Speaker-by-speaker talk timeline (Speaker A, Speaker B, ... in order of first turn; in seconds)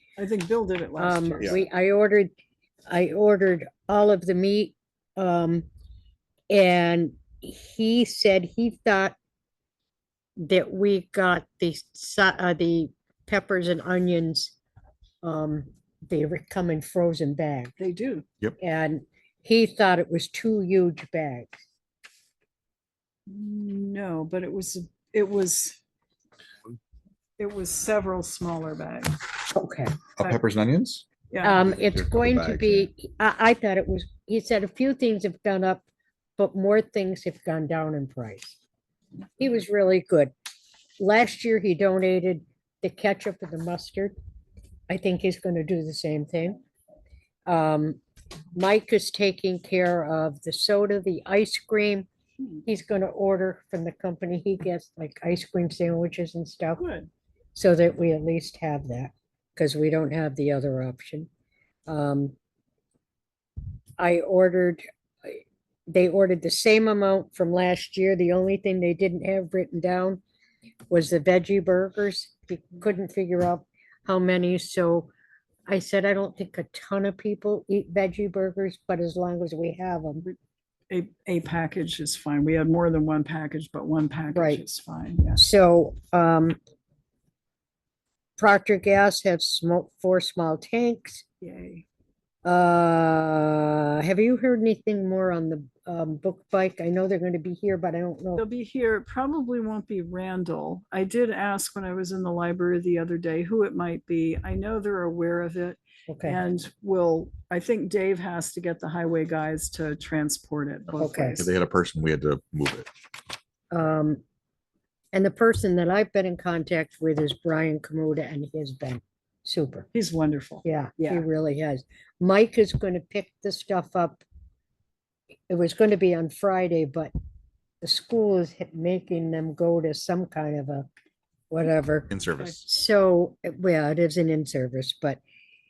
Speaker A: 0.2-1.6, 17.8-18.2, 23.3-25.8, 27.4-29.2, 31.3-31.6, 56.8-57.1, 80.9-85.5, 91.4-91.8, 98.4-111.5, 119.9-121.3
Speaker B: 1.0-2.3, 2.9-5.7, 6.5-9.2, 10.4-14.5, 15.2-17.8, 18.6-21.6, 29.5-30.0, 31.4-35.9, 36.4-38.6, 39.4-40.3, 41.0-44.1, 44.9-46.6, 47.5-48.0, 48.5-52.1, 52.6-56.8, 57.5-61.3, 61.9-62.4, 64.0-70.2, 70.9-75.1, 75.7-80.2, 84.3-84.6, 85.4-86.6, 88.4-91.2, 92.4-98.4, 106.1-106.4, 111.0-111.5, 113.7-114.2, 115.1-119.9, 120.6-124.2, 125.5-127.1, 127.8-130.9, 131.5-135.2
Speaker C: 30.2-31.1, 31.6-32.9, 111.3-112.9, 132.1-132.7